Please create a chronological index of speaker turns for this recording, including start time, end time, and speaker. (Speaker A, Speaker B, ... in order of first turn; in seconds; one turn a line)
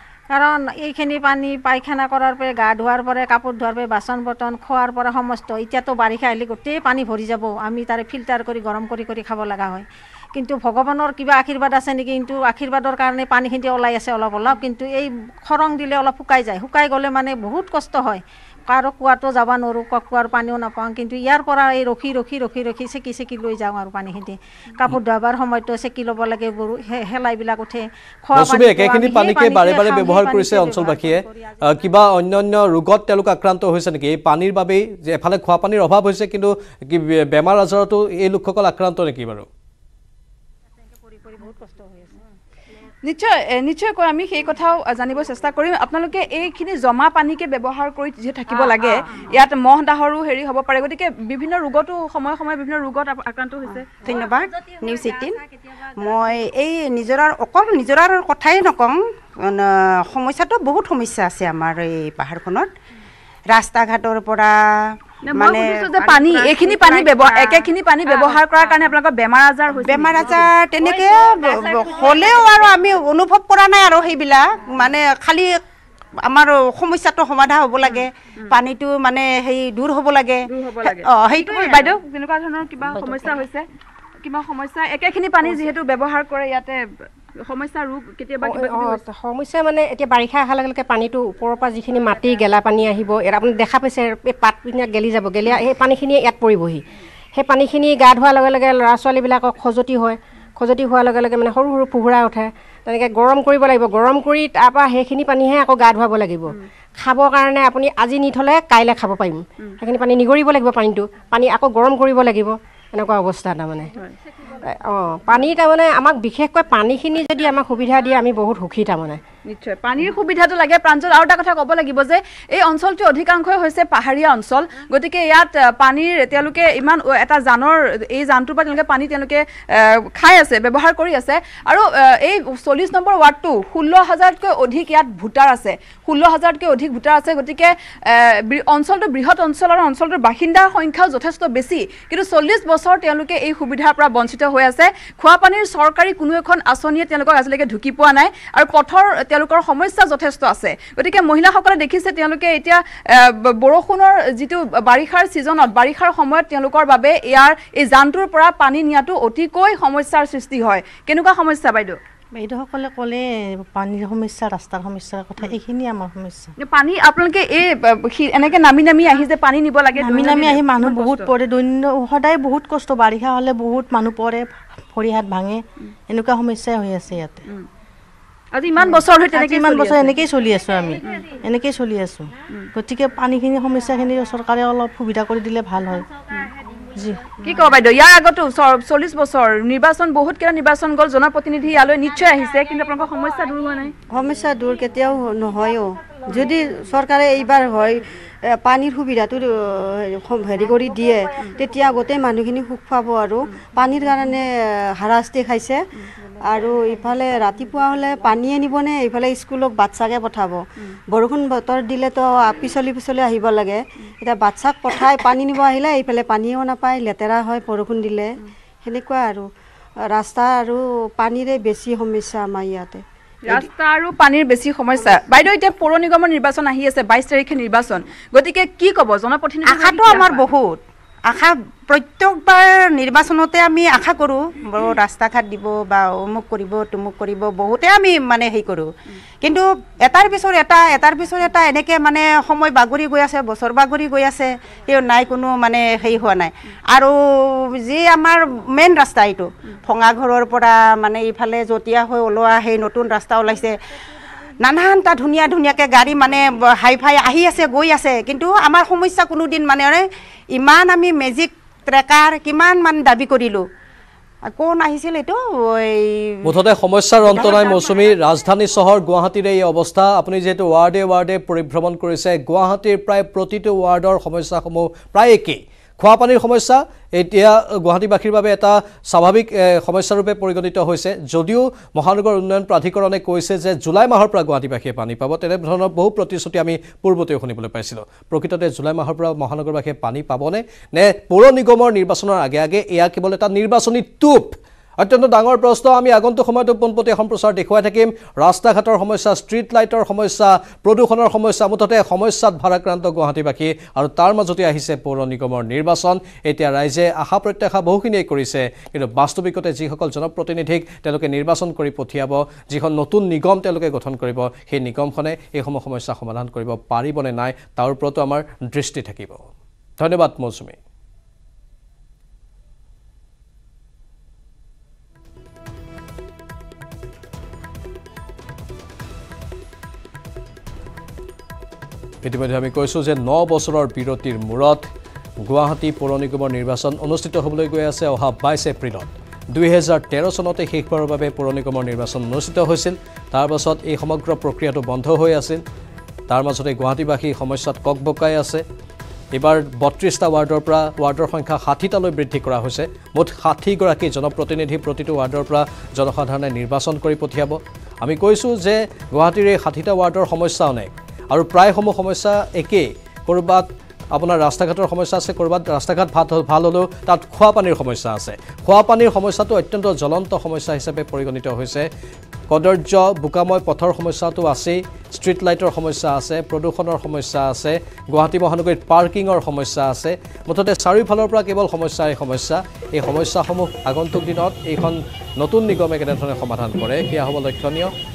Speaker A: 0.3-31.6
Speaker B: 28.4-39.5
Speaker A: 41.2-42.1
Speaker C: 43.0-53.9
Speaker D: 53.7-62.7
Speaker D: 63.5-64.5
Speaker C: 65.2-70.5
Speaker D: 65.3-67.6
Speaker D: 69.7-75.5
Speaker D: 76.3-81.9
Speaker C: 77.9-78.6
Speaker C: 80.5-83.7
Speaker C: 84.2-86.8
Speaker C: 87.5-89.0
Speaker E: 88.5-96.8
Speaker E: 97.4-100.1
Speaker E: 100.6-106.4
Speaker E: 107.0-109.4
Speaker E: 109.9-113.9
Speaker E: 115.0-119.2
Speaker C: 119.5-162.0
Speaker F: 162.3-166.5
Speaker C: 166.6-171.3
Speaker F: 170.0-177.4
Speaker C: 178.5-180.2
Speaker F: 179.3-186.1
Speaker F: 187.0-187.4
Speaker C: 187.4-193.9
Speaker G: 194.1-198.0
Speaker G: 198.6-205.8
Speaker G: 206.5-210.6
Speaker G: 211.1-219.5
Speaker G: 220.1-223.7
Speaker C: 223.5-230.5
Speaker D: 229.6-238.9
Speaker D: 239.4-253.8
Speaker D: 254.6-263.7
Speaker D: 264.5-266.5
Speaker B: 266.4-319.5
Speaker D: 267.3-267.8
Speaker B: 320.0-320.8
Speaker B: 332.2-334.9
Speaker B: 335.5-345.6
Speaker B: 346.3-348.6
Speaker B: 349.3-371.9
Speaker B: 372.5-387.9